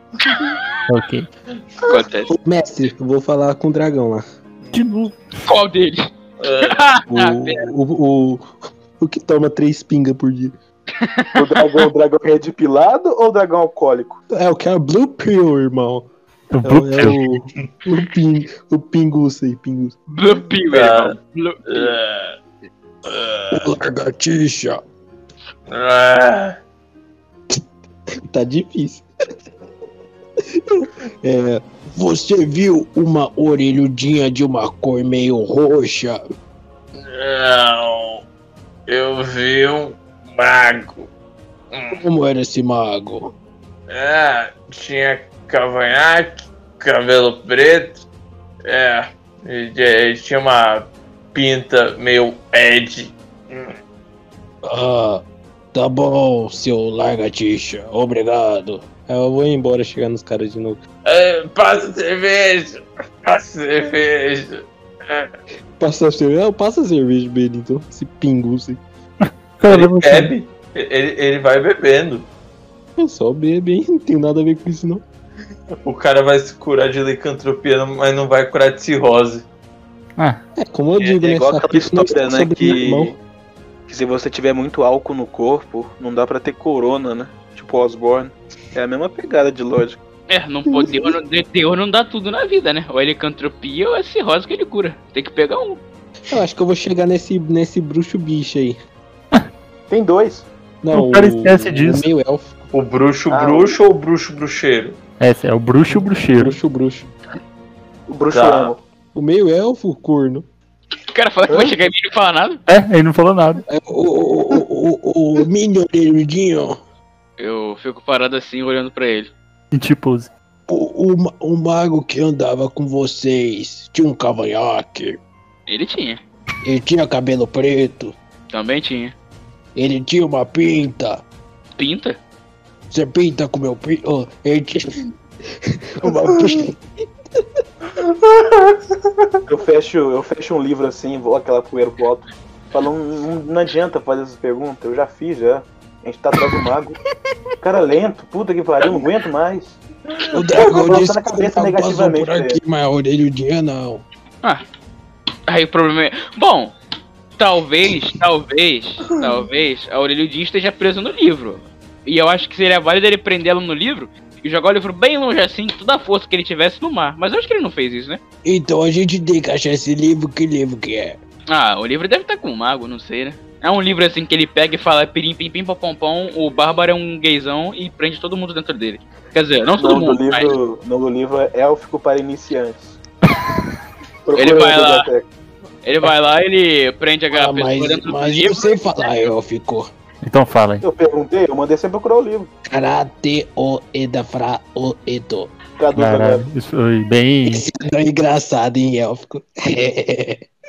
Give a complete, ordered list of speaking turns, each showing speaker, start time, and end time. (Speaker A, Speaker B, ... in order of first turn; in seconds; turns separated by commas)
Speaker A: 0.9-1.3, Speaker B: 1.8-2.3, Speaker C: 2.3-4.2, Speaker A: 4.7-5.2, Speaker B: 5.5-6.1, Speaker D: 6.4-6.9, Speaker B: 6.7-7.7, Speaker C: 7.1-10.5, Speaker B: 11.0-11.6, Speaker E: 11.4-14.2, Speaker C: 14.3-16.1, Speaker A: 16.5-17.2, Speaker C: 16.6-20.0, Speaker B: 20.1-21.9, Speaker D: 20.7-22.4, Speaker D: 23.1-23.7, Speaker C: 23.5-24.8, Speaker D: 25.7-26.6, Speaker C: 28.3-29.1, Speaker C: 30.5-36.2, Speaker D: 37.0-38.2, Speaker D: 38.9-41.1, Speaker D: 41.7-42.0, Speaker C: 41.9-43.3, Speaker D: 43.9-48.0, Speaker D: 48.7-53.8, Speaker C: 54.6-55.2, Speaker C: 55.7-60.8, Speaker D: 61.0-65.3, Speaker C: 65.8-68.8, Speaker A: 69.6-70.3, Speaker D: 69.7-72.3, Speaker C: 73.0-75.0, Speaker D: 75.8-79.5, Speaker C: 80.6-83.2, Speaker E: 81.2-83.1, Speaker E: 83.9-90.0, Speaker B: 90.3-95.8, Speaker C: 96.3-98.8, Speaker E: 99.9-100.5, Speaker C: 100.8-102.5, Speaker A: 100.9-102.1, Speaker D: 102.7-105.0, Speaker E: 103.3-103.7, Speaker A: 105.2-106.6, Speaker C: 105.9-107.1, Speaker E: 108.1-108.8, Speaker D: 108.3-108.7, Speaker C: 109.1-110.5, Speaker B: 111.1-112.6, Speaker A: 112.7-113.6, Speaker C: 113.7-116.8, Speaker B: 117.4-119.3, Speaker A: 119.7-120.3, Speaker C: 120.7-125.2, Speaker B: 125.7-126.2, Speaker C: 126.6-128.2, Speaker B: 128.5-129.2, Speaker C: 129.8-131.2, Speaker B: 131.8-132.2, Speaker C: 132.9-134.9, Speaker C: 135.7-136.8, Speaker D: 138.2-138.8, Speaker E: 139.5-147.0, Speaker E: 147.6-149.8, Speaker D: 150.1-150.7, Speaker C: 150.3-154.0, Speaker E: 150.5-152.6, Speaker B: 155.5-156.7, Speaker B: 157.4-168.2, Speaker C: 168.4-171.2, Speaker B: 171.5-180.6, Speaker E: 179.8-183.0, Speaker E: 184.3-185.3, Speaker B: 184.3-185.1, Speaker B: 185.8-188.8, Speaker C: 187.3-189.9, Speaker A: 190.2-190.8, Speaker E: 190.8-192.5, Speaker C: 192.7-195.5, Speaker E: 195.8-196.5, Speaker A: 196.0-197.7, Speaker C: 197.5-200.5